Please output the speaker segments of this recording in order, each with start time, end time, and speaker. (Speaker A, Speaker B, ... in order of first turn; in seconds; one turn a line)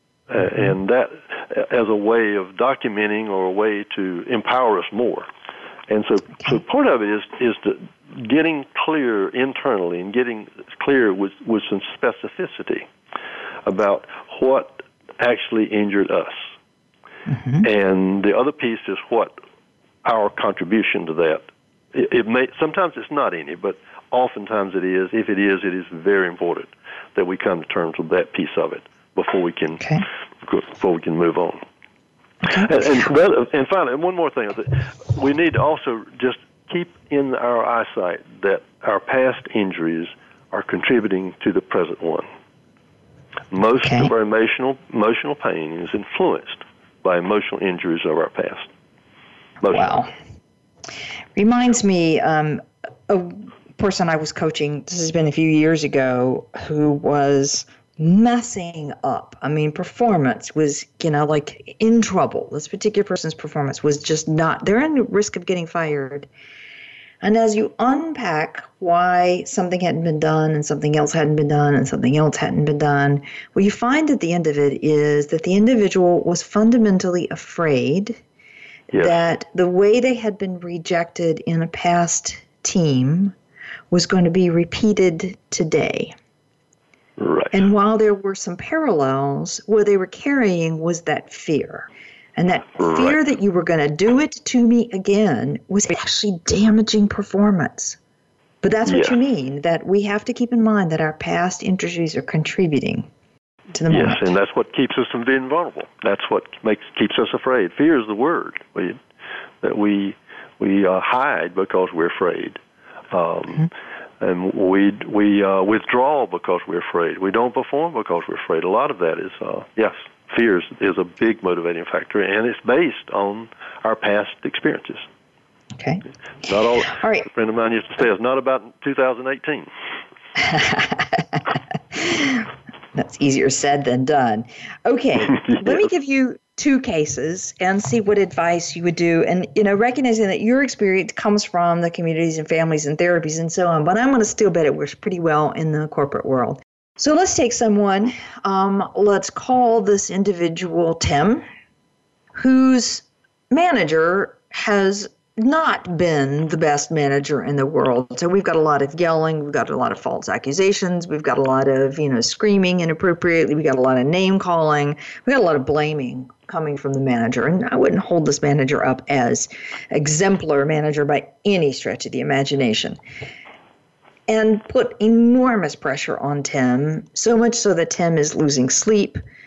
Speaker A: 0.3-5.3
Speaker A: 5.9-12.9
Speaker A: 13.7-16.5
Speaker A: 17.6-19.4
Speaker A: 20.1-31.6
Speaker A: 32.5-42.3
Speaker A: 43.5-48.7
Speaker B: 43.8-44.1
Speaker A: 49.6-49.9
Speaker B: 49.7-50.1
Speaker B: 51.4-66.3
Speaker B: 67.2-78.2
Speaker A: 78.9-79.2
Speaker B: 78.9-83.3
Speaker B: 83.9-86.2
Speaker A: 87.2-87.6
Speaker B: 87.5-98.0
Speaker A: 92.8-93.2
Speaker B: 98.6-103.1
Speaker A: 98.9-99.2
Speaker B: 103.7-104.3
Speaker A: 103.9-109.0
Speaker A: 109.6-112.6
Speaker A: 113.1-125.0
Speaker B: 125.8-126.0
Speaker A: 126.5-129.7
Speaker B: 126.9-127.3
Speaker B: 130.4-151.4
Speaker A: 135.3-135.8
Speaker B: 152.3-173.0
Speaker B: 174.3-179.2